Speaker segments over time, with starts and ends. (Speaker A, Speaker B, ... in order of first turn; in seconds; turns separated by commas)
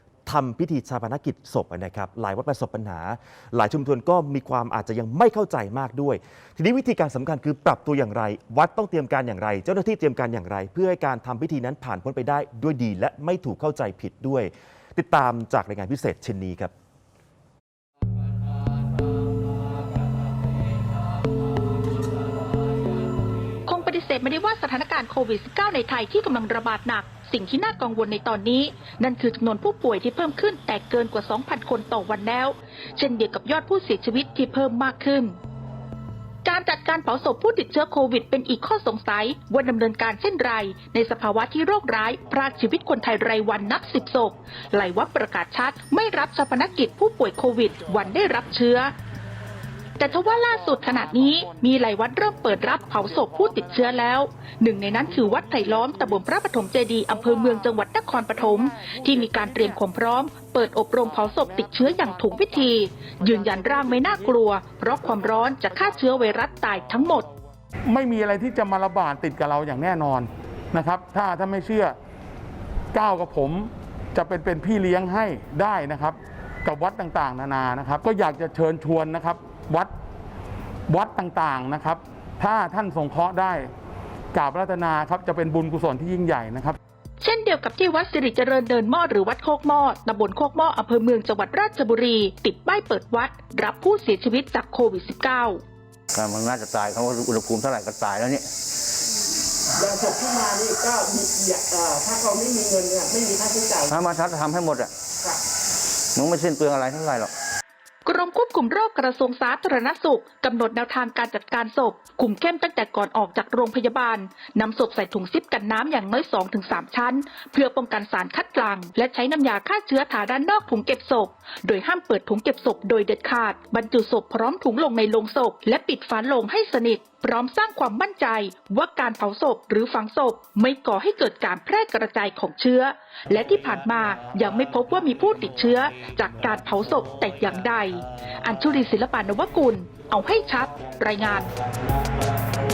Speaker A: 0.2-16.7, Speaker B: 23.6-35.4, Speaker B: 36.4-48.9, Speaker B: 50.0-67.3, Speaker C: 67.9-72.0, Speaker C: 72.9-79.9, Speaker C: 80.9-83.7, Speaker C: 84.3-86.8, Speaker B: 87.2-95.6, Speaker D: 96.1-98.5, Speaker E: 99.8-103.8, Speaker D: 103.8-104.9, Speaker D: 106.2-107.3, Speaker B: 108.0-141.5